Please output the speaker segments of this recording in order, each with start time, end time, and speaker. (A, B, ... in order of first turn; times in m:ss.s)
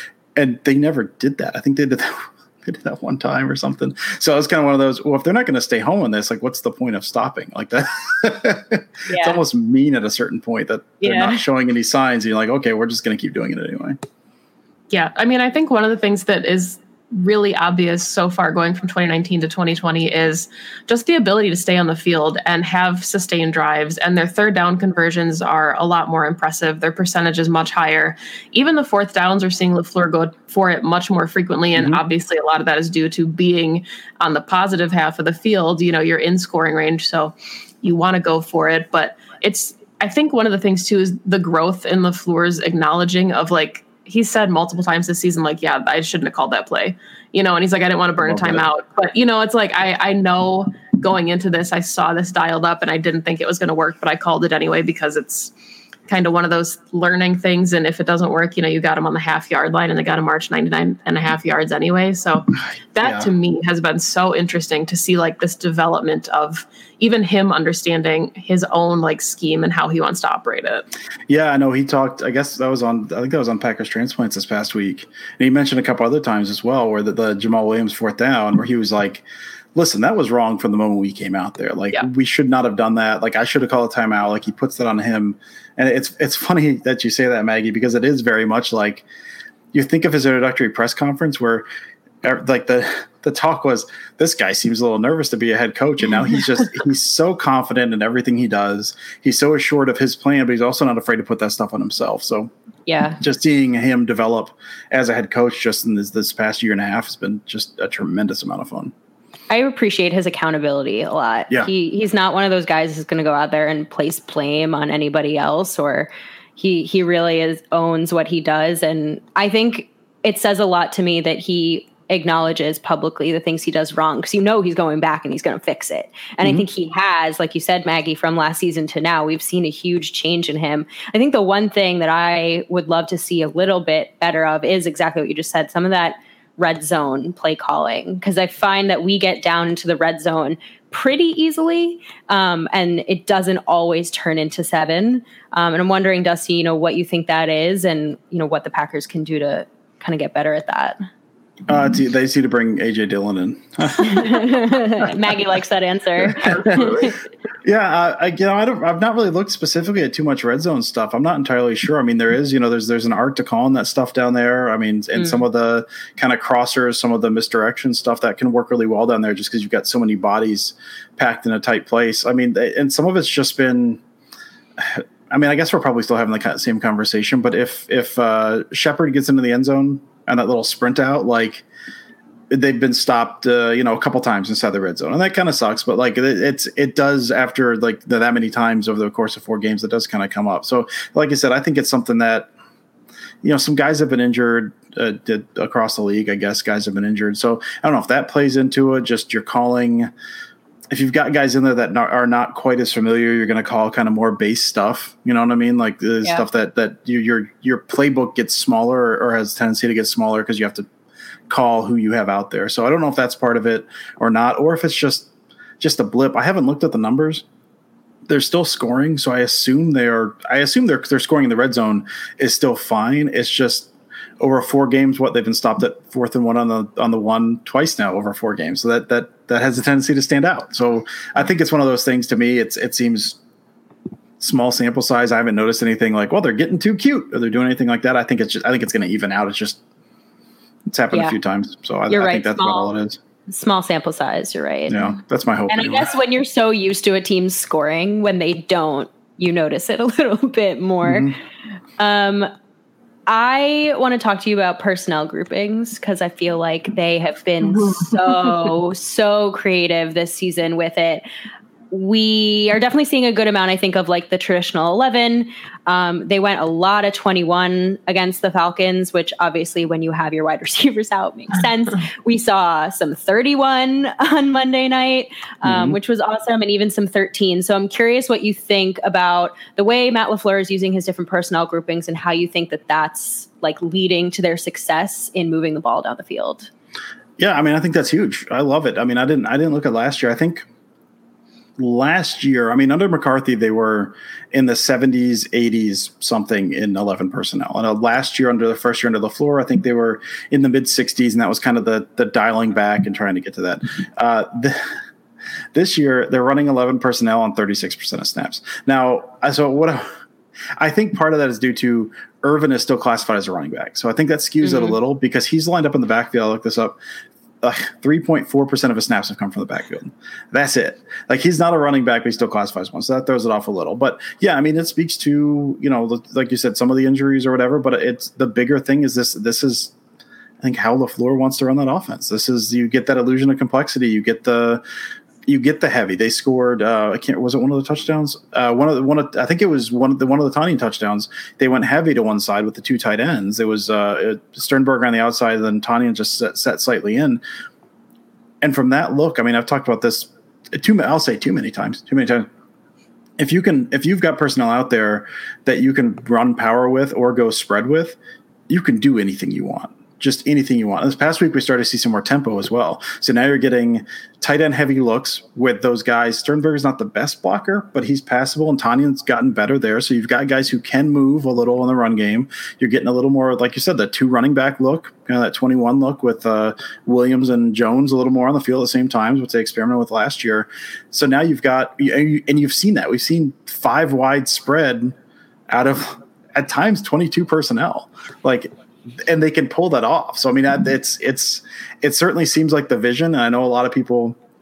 0:00.4-0:14.0 A
0:09.1-0:09.4 B
0:11.0-0:11.3 B
0:14.9-0:55.5 C
0:31.8-0:32.0 A
0:48.2-0:48.6 A
0:56.1-1:10.9 C
1:03.0-1:03.3 A
1:11.3-1:29.0 A
1:29.7-1:31.6 A
1:32.2-1:42.5 A
1:42.9-1:43.2 B
1:43.2-1:48.9 A
1:49.5-2:31.0 B
2:31.7-2:35.2 A
2:34.0-2:37.1 B
2:36.3-2:37.1 A
2:37.6-2:54.0 A
2:45.2-2:45.4 B
2:54.8-3:01.6 A
3:02.5-3:12.5 A
3:13.4-3:20.1 A
3:20.9-3:30.9 A
3:31.5-3:37.4 A
3:38.3-3:53.4 A
3:54.4-3:59.8 A
4:00.9-4:03.2 A
4:02.1-4:02.9 B
4:03.5-4:05.1 B
4:04.9-4:06.1 A
4:05.7-4:11.3 B
4:11.0-4:11.3 A
4:12.0-4:12.5 B
4:13.3-4:21.2 B
4:21.9-4:46.7 B
4:35.6-4:36.0 A
4:47.4-4:50.7 A
4:51.8-5:04.9 A
5:05.7-5:10.1 A
5:10.8-5:17.0 A
5:14.6-5:14.9 B
5:17.6-5:29.9 A
5:30.6-5:34.8 A
5:35.4-5:47.4 A
5:48.6-5:52.5 A
5:53.4-5:58.2 A
5:58.7-6:25.1 A
6:25.7-6:34.4 A